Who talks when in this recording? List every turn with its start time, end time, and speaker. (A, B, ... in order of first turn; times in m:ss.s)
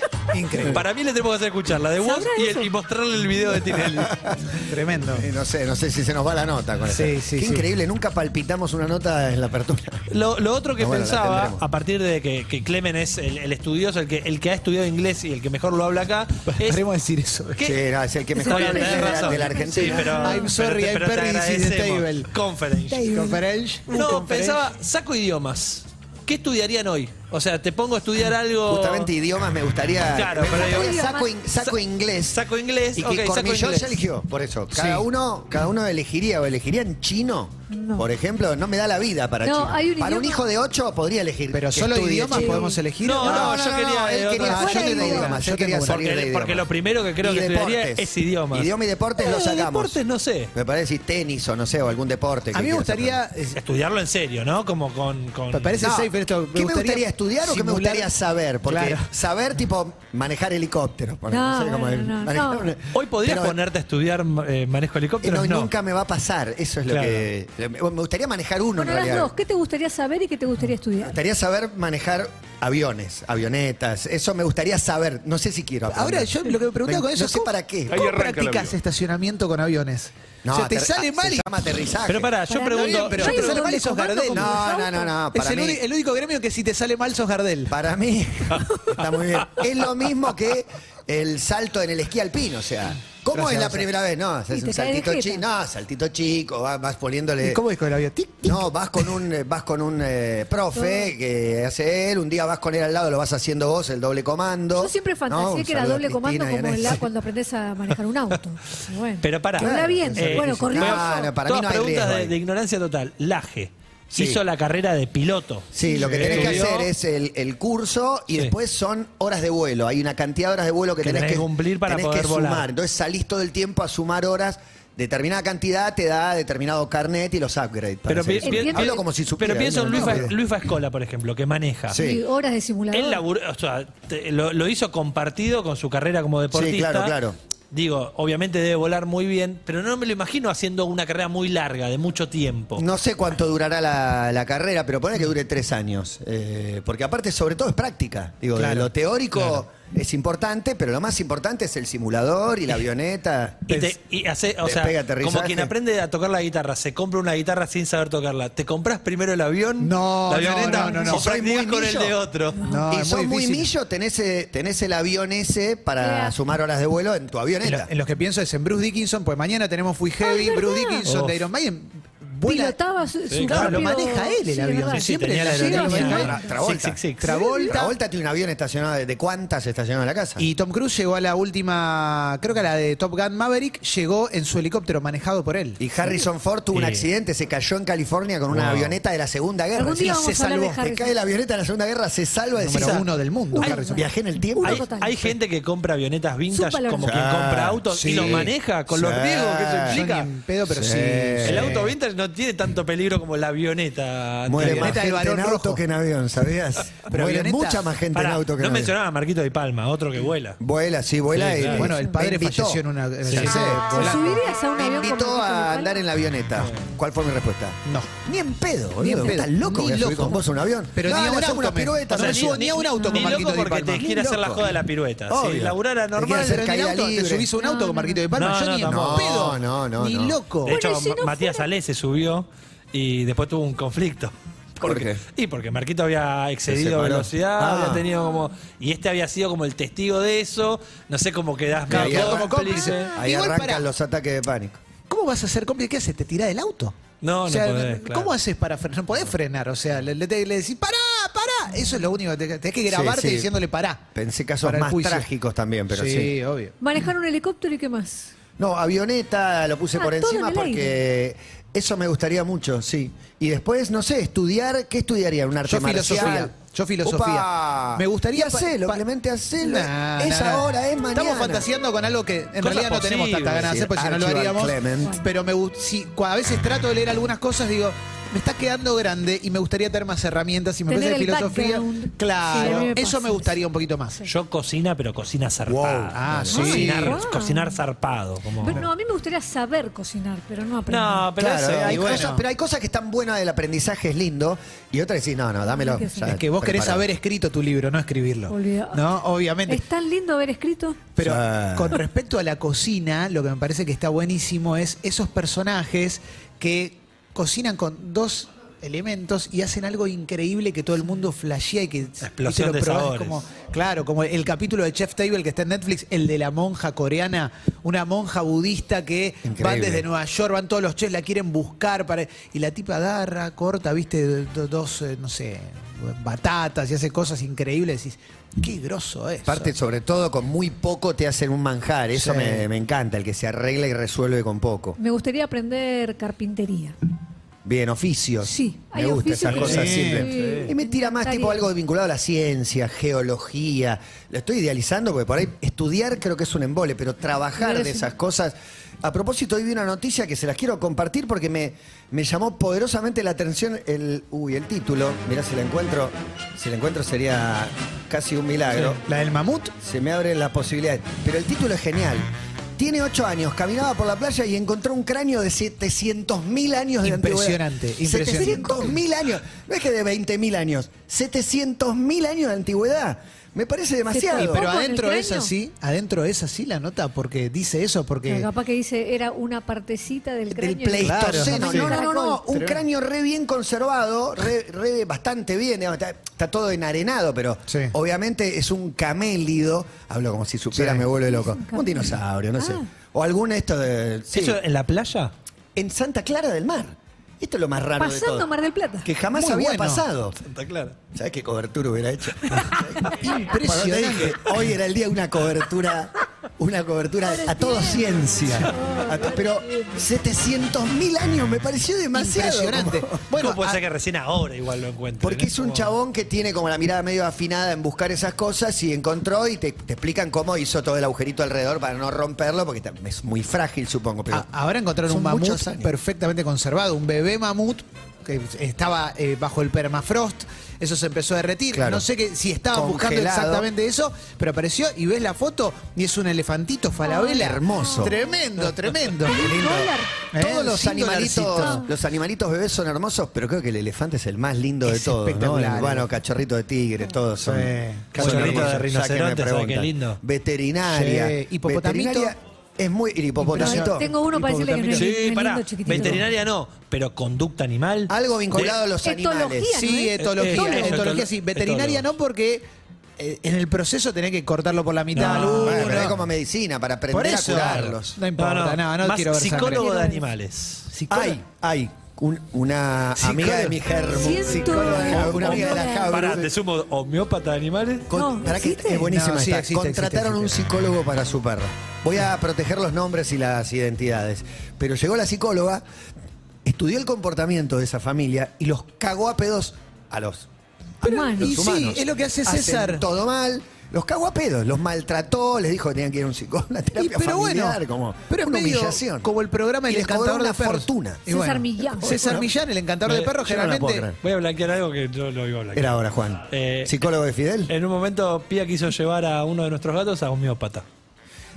0:00.3-0:00.8 A
0:00.7-0:04.2 B
0:02.0-0:02.7 C
0:03.8-0:04.6 D
0:04.6-0:05.3 A
0:05.1-0:10.0 D
0:06.9-0:07.6 A
0:10.1-0:16.8 B
0:10.8-0:11.6 D
0:16.5-0:17.7 A
0:17.6-0:20.2 D
0:18.4-0:20.5 C
0:18.4-0:23.1 B
0:20.2-0:22.3 A
0:22.9-0:23.4 D
0:23.0-0:24.7 A
0:23.9-0:29.1 B
0:28.7-0:32.4 D
0:30.1-0:30.9 B
0:30.5-0:31.3 C
0:32.3-0:34.0 B
0:33.0-0:46.7 D
0:34.7-0:35.0 A
0:37.7-0:38.1 C
0:39.4-0:40.4 C
0:41.5-0:43.6 A
0:42.3-0:42.8 C
0:43.0-0:44.9 B
0:44.4-0:46.0 A
0:44.5-0:45.3 C
0:45.9-0:50.5 B
0:47.2-0:50.0 D
0:50.5-0:53.2 D
0:52.5-0:53.6 A
0:53.6-0:55.9 B
0:55.5-0:58.1 A
0:55.8-1:03.6 D
0:58.6-0:59.1 A
1:01.3-1:02.7 C
1:02.9-1:05.7 B
1:05.2-1:09.3 D
1:06.9-1:07.3 B
1:08.8-1:11.2 C
1:11.0-1:16.3 D
1:15.9-1:21.7 A
1:16.8-1:18.3 D
1:20.4-1:22.3 D
1:22.1-1:23.7 B
1:22.5-1:25.1 C
1:22.7-1:24.6 A
1:24.3-1:25.8 D
1:25.3-1:27.8 A
1:27.7-1:37.6 D
1:33.3-1:33.9 A
1:34.5-1:35.4 C
1:37.4-1:39.1 A
1:38.4-1:47.1 D
1:40.7-1:41.1 C
1:44.8-1:51.3 C
1:49.2-1:56.9 B
1:49.6-1:52.4 D
1:54.1-1:54.4 D
1:55.7-2:10.4 D
1:56.0-1:56.7 A
2:01.0-2:02.7 B
2:08.1-2:12.0 B
2:08.4-2:09.0 C
2:09.9-2:10.2 C
2:11.9-2:12.2 D
2:11.9-2:13.2 C
2:12.9-2:17.2 B
2:16.5-2:17.4 D
2:17.7-2:22.8 B
2:22.8-2:33.8 D
2:28.6-2:28.9 A
2:33.7-2:42.6 B
2:34.6-2:35.7 D
2:39.8-2:41.2 A
2:40.4-2:42.2 D
2:40.7-2:41.0 C
2:42.6-2:43.7 A
2:42.9-2:47.9 D
2:46.0-2:46.4 C
2:47.6-2:52.8 A
2:50.2-2:51.1 C
2:51.1-2:51.4 B
2:52.4-2:56.5 C
2:53.3-2:53.8 B
2:53.4-2:56.3 A
2:53.5-2:53.8 D
2:54.9-2:57.3 B
2:55.9-3:00.5 D
2:57.2-2:58.0 A
2:57.3-2:57.7 C
3:00.4-3:05.8 A
3:05.8-3:14.9 D
3:06.7-3:07.0 B
3:08.5-3:09.0 B
3:09.8-3:11.1 C
3:10.0-3:10.8 A
3:12.6-3:14.1 A
3:12.8-3:13.0 B
3:13.6-3:15.3 C
3:14.6-3:20.3 B
3:16.5-3:17.2 C
3:17.0-3:20.0 D
3:17.9-3:18.5 A
3:19.9-3:21.9 A
3:20.7-3:21.7 D
3:21.4-3:25.0 B
3:24.5-3:28.9 D
3:24.6-3:25.8 A
3:27.1-3:27.9 A
3:28.1-3:30.6 B
3:30.6-3:42.8 D
3:31.3-3:31.9 B
3:31.7-3:34.4 A
3:33.3-3:33.6 B
3:33.9-3:36.0 C
3:36.6-3:36.9 B
3:39.0-3:40.4 A
3:40.9-3:44.1 A
3:42.1-3:46.7 B
3:43.0-3:43.4 C
3:44.0-3:47.5 D
3:46.3-3:50.8 A
3:47.6-3:48.2 C
3:48.3-3:49.4 B
3:48.9-3:50.4 D
3:50.7-4:03.1 B
3:50.7-3:51.7 C
3:54.8-3:55.2 D
3:56.7-3:58.1 D
4:01.9-4:02.6 D
4:01.9-4:03.9 A
4:03.1-4:04.8 D
4:05.1-4:14.0 A
4:07.2-4:08.3 B
4:12.9-4:13.6 D
4:14.1-4:16.4 D
4:14.6-4:15.3 A
4:15.9-4:16.8 A
4:16.8-4:18.3 C
4:18.6-4:31.7 D
4:20.0-4:20.9 C
4:25.7-4:29.0 A
4:29.6-4:44.2 A
4:32.6-4:33.8 B
4:33.6-4:35.2 D
4:40.9-4:43.6 C
4:44.2-4:48.8 B
4:45.6-4:46.8 D
4:46.1-4:47.2 A
4:46.5-4:47.8 C
4:48.6-4:51.3 C
4:50.9-4:52.3 B
4:51.4-4:57.1 D
4:51.8-4:52.4 A
4:55.7-4:56.3 C
4:56.2-4:59.8 A
4:58.5-5:01.0 C
5:01.2-5:29.7 A
5:01.2-5:02.0 D
5:12.2-5:13.4 B
5:19.4-5:20.1 D
5:29.5-5:35.0 D
5:32.1-5:32.7 A
5:35.0-5:37.0 C
5:37.6-5:59.0 D
5:38.4-5:41.6 C
5:39.5-5:40.7 B
5:39.6-5:40.6 A
5:47.6-5:48.1 C
5:58.7-5:59.7 A
5:59.8-6:14.7 D
6:07.0-6:09.0 A
6:08.4-6:08.8 C
6:14.1-6:15.5 C
6:14.4-6:18.5 A
6:18.2-6:22.4 C
6:20.5-6:34.6 D
6:21.0-6:22.0 A
6:22.5-6:22.8 A
6:27.7-6:27.9 A
6:30.7-6:31.1 A
6:31.3-6:32.8 C
6:34.3-6:35.3 B
6:35.8-6:38.5 D
6:38.0-6:39.1 C
6:39.0-6:40.4 D
6:39.3-6:40.1 A
6:40.4-6:41.0 B
6:41.1-6:53.1 D
6:43.0-6:44.6 A
6:47.3-6:49.9 C
6:52.1-6:53.8 A
6:53.3-6:55.9 B
6:55.2-7:04.5 D
7:04.3-7:19.4 A
7:05.0-7:05.9 D
7:11.7-7:12.0 D
7:12.7-7:13.7 D
7:17.0-7:18.4 C
7:17.2-7:18.2 D
7:19.2-7:20.2 C
7:19.3-7:34.1 D
7:20.3-7:21.9 A
7:21.6-7:21.9 C
7:24.8-7:26.1 A
7:27.4-7:28.8 A
7:28.1-7:30.2 B
7:30.9-7:32.3 A
7:33.4-7:35.2 A
7:33.6-7:36.2 C
7:34.9-7:38.8 B
7:38.1-7:39.9 D
7:39.0-7:41.1 C
7:39.8-7:42.6 A
7:40.2-7:42.0 B
7:43.2-7:46.2 A
7:45.1-7:46.1 B
7:45.2-7:48.2 D
7:47.1-7:49.8 A
7:48.4-7:50.9 B
7:49.5-7:50.2 C
7:50.9-7:51.4 A
7:51.1-7:56.5 D
7:53.2-7:53.8 A
7:54.1-7:56.4 C
7:54.6-7:55.9 A
7:55.1-7:58.1 B
7:58.1-8:05.8 D
7:58.1-7:59.0 C
7:58.9-8:00.7 A
8:06.6-8:10.5 D
8:11.0-8:13.1 A
8:11.0-8:19.3 D
8:11.1-8:11.6 C
8:17.0-8:24.1 A
8:19.9-8:21.3 D
8:21.3-8:22.2 C
8:23.1-8:23.4 B
8:23.4-8:24.2 D
8:24.2-8:26.0 B
8:25.7-8:27.7 D
8:26.5-8:27.1 B
8:27.7-8:30.8 B